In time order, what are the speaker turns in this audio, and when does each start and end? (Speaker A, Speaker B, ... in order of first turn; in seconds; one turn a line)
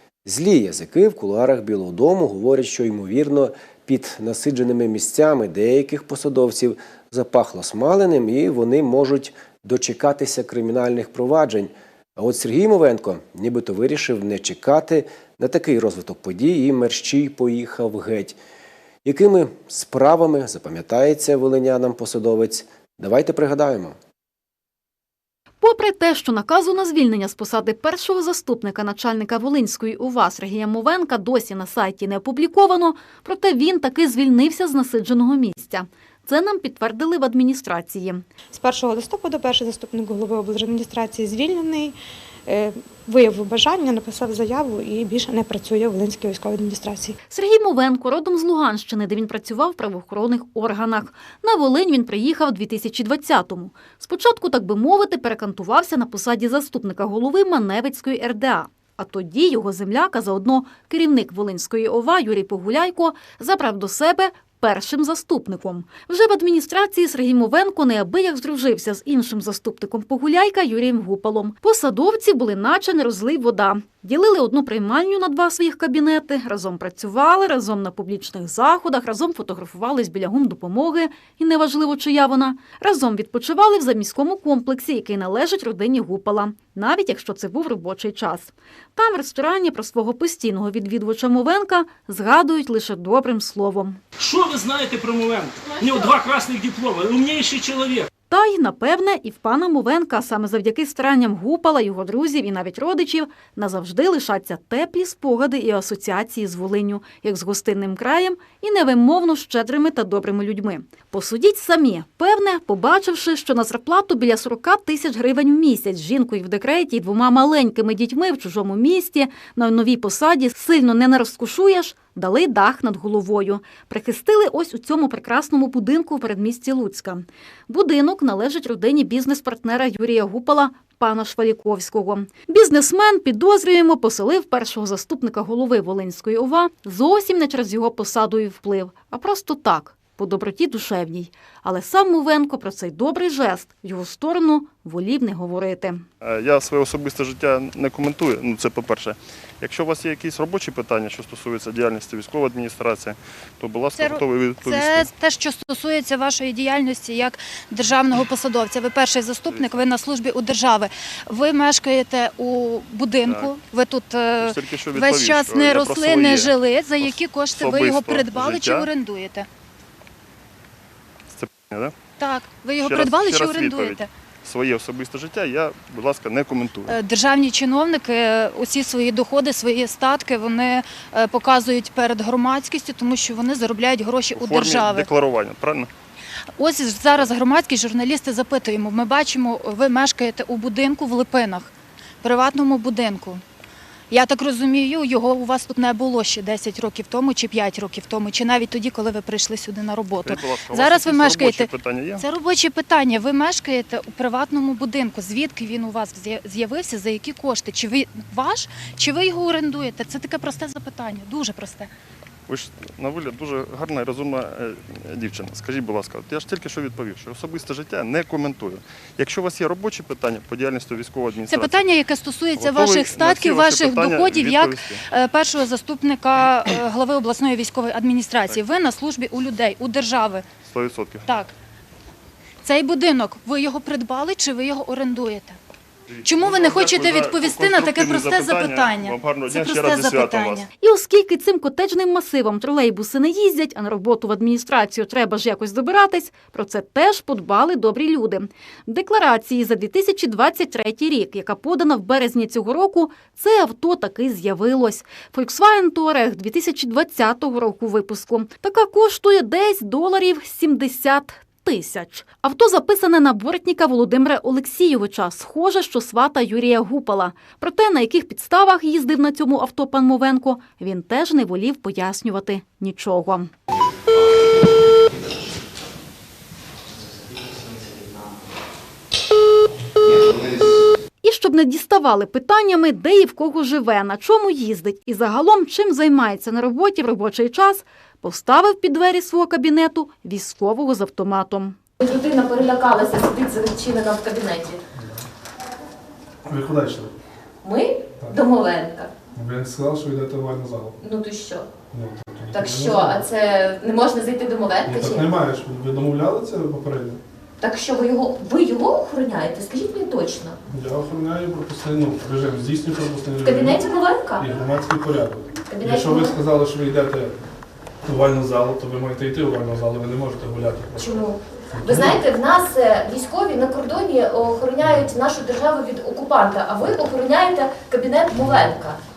Speaker A: 0.3-18.4
Speaker A: 19.1-24.0
Speaker B: 25.6-38.2
Speaker C: 38.5-41.9
Speaker C: 42.6-47.0
Speaker B: 47.3-94.0
Speaker D: 94.2-98.1
Speaker B: 98.3-146.0
Speaker E: 146.2-155.1
Speaker F: 153.9-169.5
Speaker E: 159.5-159.8
Speaker E: 164.4-168.9
Speaker E: 171.3-171.9
Speaker F: 172.2-174.1
Speaker E: 172.8-177.0
Speaker F: 176.9-185.1
Speaker E: 184.3-185.9
Speaker F: 186.6-191.7
Speaker F: 192.2-193.4
Speaker F: 194.1-211.9
Speaker E: 200.2-202.2
Speaker E: 212.5-221.9
Speaker F: 221.5-230.4
Speaker E: 222.6-225.0
Speaker E: 230.7-231.3
Speaker F: 231.3-231.5
Speaker F: 232.6-235.6
Speaker E: 236.1-240.7
Speaker F: 236.2-240.7
Speaker B: 240.8-273.5
Speaker B: 281.2-291.8
Speaker G: 292.0-294.8
Speaker H: 294.9-295.2
Speaker H: 296.4-297.1
Speaker G: 297.6-299.1
Speaker H: 299.4-301.0
Speaker G: 301.0-301.7
Speaker H: 301.9-303.2
Speaker G: 302.5-305.3
Speaker H: 304.9-307.2
Speaker G: 307.6-310.6
Speaker H: 310.7-313.8
Speaker G: 313.4-314.5
Speaker H: 314.4-317.3
Speaker G: 315.7-316.4
Speaker H: 318.0-321.1
Speaker G: 321.0-329.0
Speaker H: 321.7-322.2
Speaker H: 324.8-325.1
Speaker H: 328.4-328.7